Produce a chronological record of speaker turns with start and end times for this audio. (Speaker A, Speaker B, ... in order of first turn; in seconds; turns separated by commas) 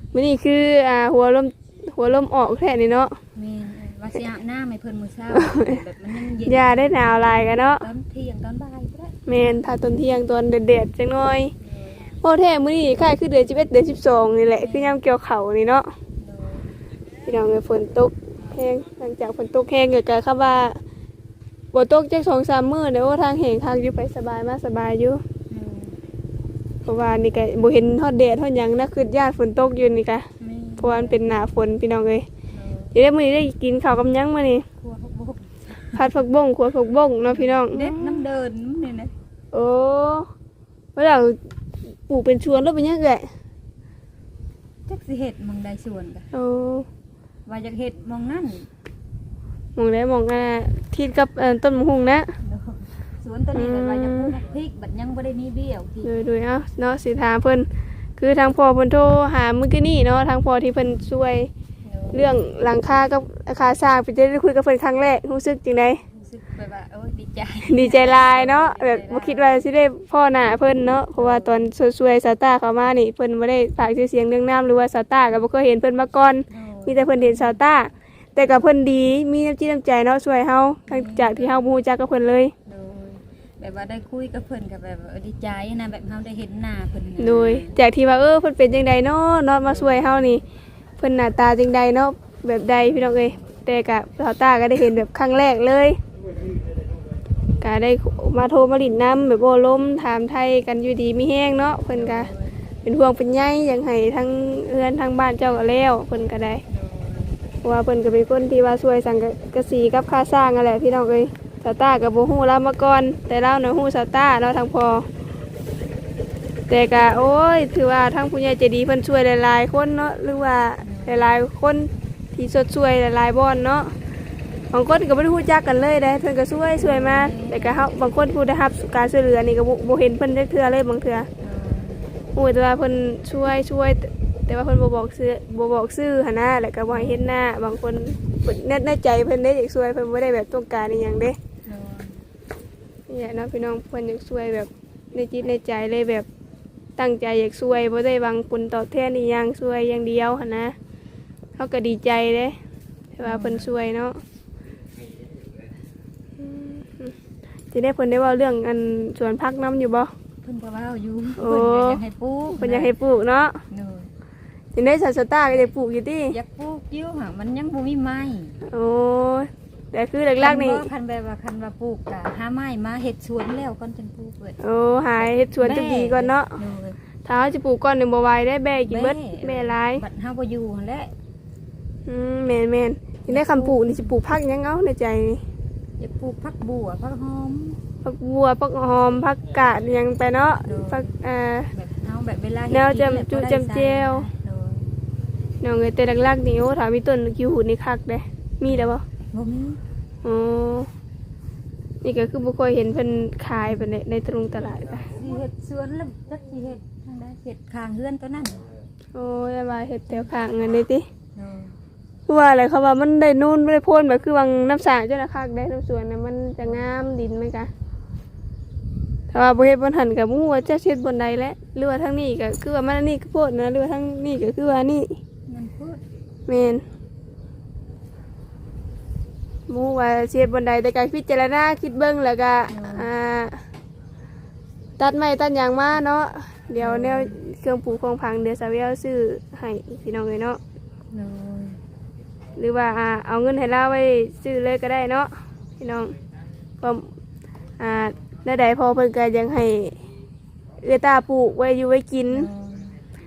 Speaker A: 0.1-3.2, Speaker B: 3.3-9.2, Speaker A: 5.3-5.8, Speaker A: 6.5-7.8, Speaker A: 9.3-11.5, Speaker B: 11.6-12.1, Speaker A: 12.2-15.9, Speaker B: 14.6-15.0, Speaker B: 16.2-16.7, Speaker A: 17.2-20.8, Speaker A: 21.7-25.2, Speaker B: 25.5-26.0, Speaker A: 26.8-30.2, Speaker B: 30.4-31.2, Speaker A: 30.8-32.2, Speaker B: 32.5-32.9, Speaker A: 32.9-34.6, Speaker B: 34.8-36.2, Speaker A: 35.9-38.2, Speaker B: 37.3-39.1, Speaker A: 39.5-40.3, Speaker A: 41.0-41.4, Speaker A: 42.1-43.3, Speaker B: 44.9-46.3, Speaker A: 46.3-46.9, Speaker B: 47.5-48.7, Speaker A: 49.8-52.3, Speaker B: 52.4-56.2, Speaker A: 53.5-54.3, Speaker A: 56.0-61.5, Speaker B: 61.8-62.3, Speaker A: 62.1-66.0, Speaker B: 66.1-69.7, Speaker A: 67.7-82.5, Speaker B: 71.2-71.7, Speaker B: 76.5-77.6, Speaker B: 80.9-81.7, Speaker B: 82.7-87.7, Speaker A: 87.2-90.4, Speaker B: 89.7-90.3, Speaker A: 91.0-96.0, Speaker B: 92.8-93.4, Speaker A: 97.6-102.3, Speaker B: 101.9-102.6, Speaker A: 102.8-106.6, Speaker B: 106.7-107.4, Speaker A: 107.6-115.1, Speaker A: 116.7-124.0, Speaker B: 120.8-121.4, Speaker A: 124.7-131.3, Speaker B: 126.8-127.9, Speaker B: 131.4-132.2, Speaker A: 132.3-141.3, Speaker B: 136.9-137.2, Speaker B: 141.7-142.2, Speaker A: 143.1-146.3, Speaker A: 147.0-150.7, Speaker A: 151.6-152.6, Speaker A: 153.2-154.2, Speaker B: 153.2-153.7, Speaker A: 156.4-157.2, Speaker A: 157.7-160.1, Speaker B: 160.4-162.9, Speaker A: 161.4-162.0, Speaker A: 162.6-163.6, Speaker B: 163.7-164.1, Speaker A: 164.7-166.3, Speaker B: 166.3-168.6, Speaker A: 168.7-170.9, Speaker B: 170.4-174.6, Speaker A: 174.6-176.5, Speaker B: 175.2-177.0, Speaker A: 177.2-180.0, Speaker B: 178.9-181.1, Speaker A: 182.1-185.4, Speaker B: 183.3-184.2, Speaker B: 186.0-187.8, Speaker A: 188.0-191.7, Speaker B: 190.7-191.2, Speaker B: 191.7-194.9, Speaker A: 192.7-194.3, Speaker A: 195.6-199.0, Speaker B: 198.7-199.8, Speaker A: 200.2-200.9, Speaker A: 202.0-205.2, Speaker B: 203.7-203.9, Speaker B: 205.1-208.6, Speaker A: 209.2-211.1, Speaker B: 211.3-211.8, Speaker A: 212.3-217.7, Speaker A: 219.3-225.2, Speaker B: 225.5-226.0, Speaker A: 226.5-226.8, Speaker A: 229.7-233.6, Speaker B: 232.7-233.1, Speaker A: 235.0-240.6, Speaker B: 236.8-237.3, Speaker B: 241.1-241.8, Speaker A: 242.6-246.2, Speaker A: 246.8-247.1, Speaker A: 247.8-250.0, Speaker A: 250.8-252.5, Speaker B: 252.3-253.0